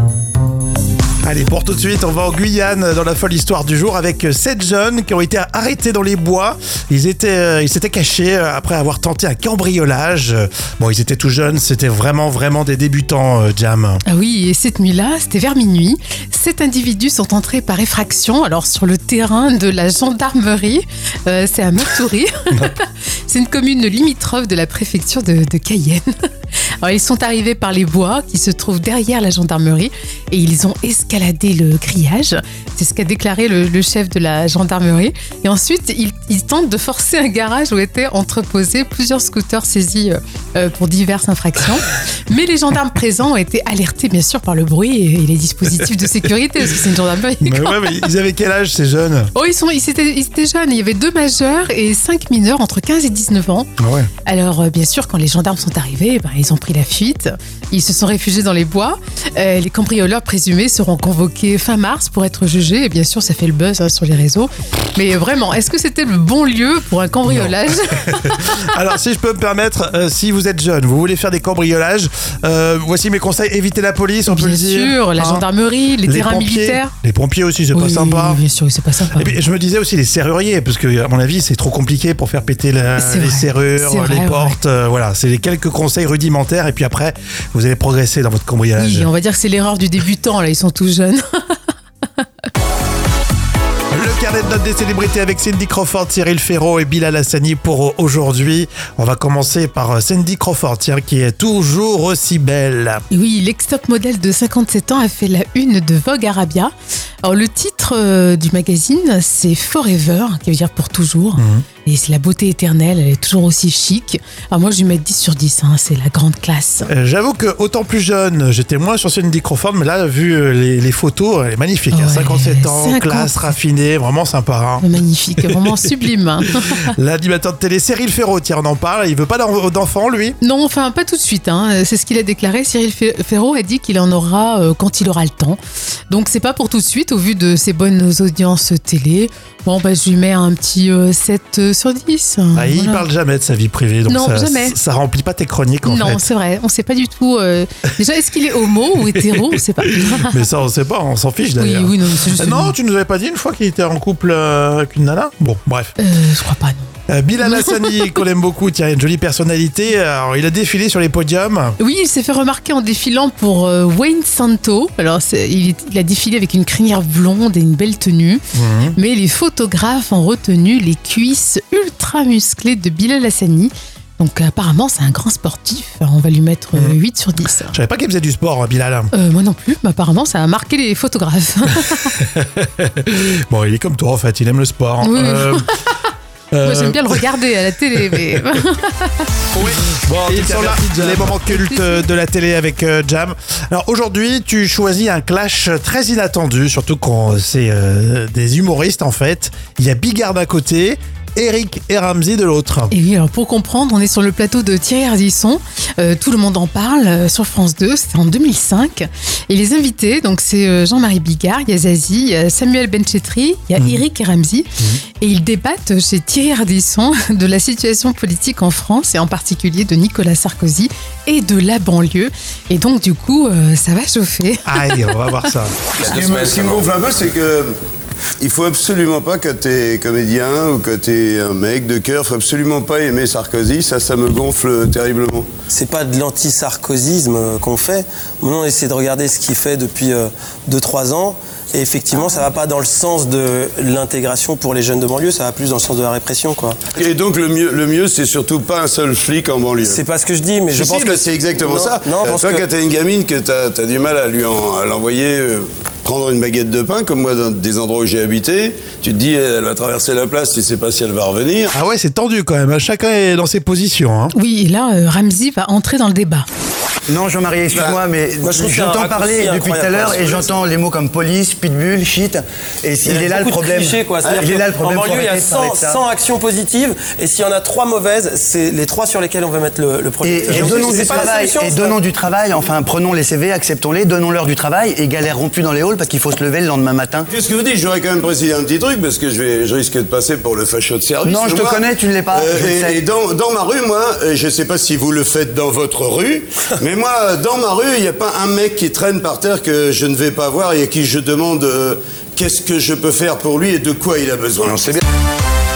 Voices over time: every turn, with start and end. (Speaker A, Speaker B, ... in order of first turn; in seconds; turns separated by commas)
Speaker A: 1.2-14.0, Speaker B: 14.1-26.1, Speaker B: 26.8-48.1, Speaker A: 47.4-49.3, Speaker B: 49.4-53.7, Speaker A: 53.8-54.1, Speaker B: 54.3-68.5, Speaker A: 67.3-75.5, Speaker B: 74.3-76.9, Speaker A: 76.0-78.4, Speaker B: 77.7-79.4, Speaker A: 79.2-89.1, Speaker B: 83.0-84.6, Speaker B: 88.8-91.6, Speaker A: 93.9-103.0, Speaker B: 103.1-106.7, Speaker B: 107.2-116.9, Speaker A: 111.4-111.7, Speaker A: 116.9-124.9, Speaker B: 121.9-123.5, Speaker B: 124.8-126.9, Speaker A: 125.5-126.0, Speaker A: 126.6-130.4, Speaker B: 130.4-135.6, Speaker B: 136.1-143.1, Speaker A: 142.5-146.3, Speaker B: 144.1-144.8, Speaker B: 145.8-150.5, Speaker A: 149.0-155.9, Speaker B: 151.6-152.7, Speaker B: 156.0-158.2, Speaker A: 157.1-161.8, Speaker B: 161.8-168.4, Speaker A: 168.5-169.0, Speaker B: 169.0-177.8, Speaker A: 177.7-179.1, Speaker B: 179.1-182.2, Speaker A: 181.9-185.7, Speaker B: 185.0-185.8, Speaker A: 186.5-187.2, Speaker B: 186.6-189.4, Speaker A: 189.6-202.9, Speaker B: 191.1-192.1, Speaker B: 202.9-225.3, Speaker A: 213.8-214.1, Speaker A: 224.7-225.8, Speaker C: 226.0-227.8, Speaker D: 226.1-226.7, Speaker C: 228.4-235.5, Speaker D: 235.7-246.8, Speaker C: 246.9-250.0, Speaker D: 249.8-252.7, Speaker C: 250.7-261.7, Speaker A: 261.7-264.4, Speaker B: 264.3-266.5, Speaker E: 267.1-276.0, Speaker C: 267.7-268.0, Speaker D: 268.4-270.7, Speaker D: 273.0-282.0, Speaker C: 274.2-274.5, Speaker E: 280.2-287.3, Speaker C: 280.5-281.5, Speaker C: 287.3-305.0, Speaker E: 291.2-293.1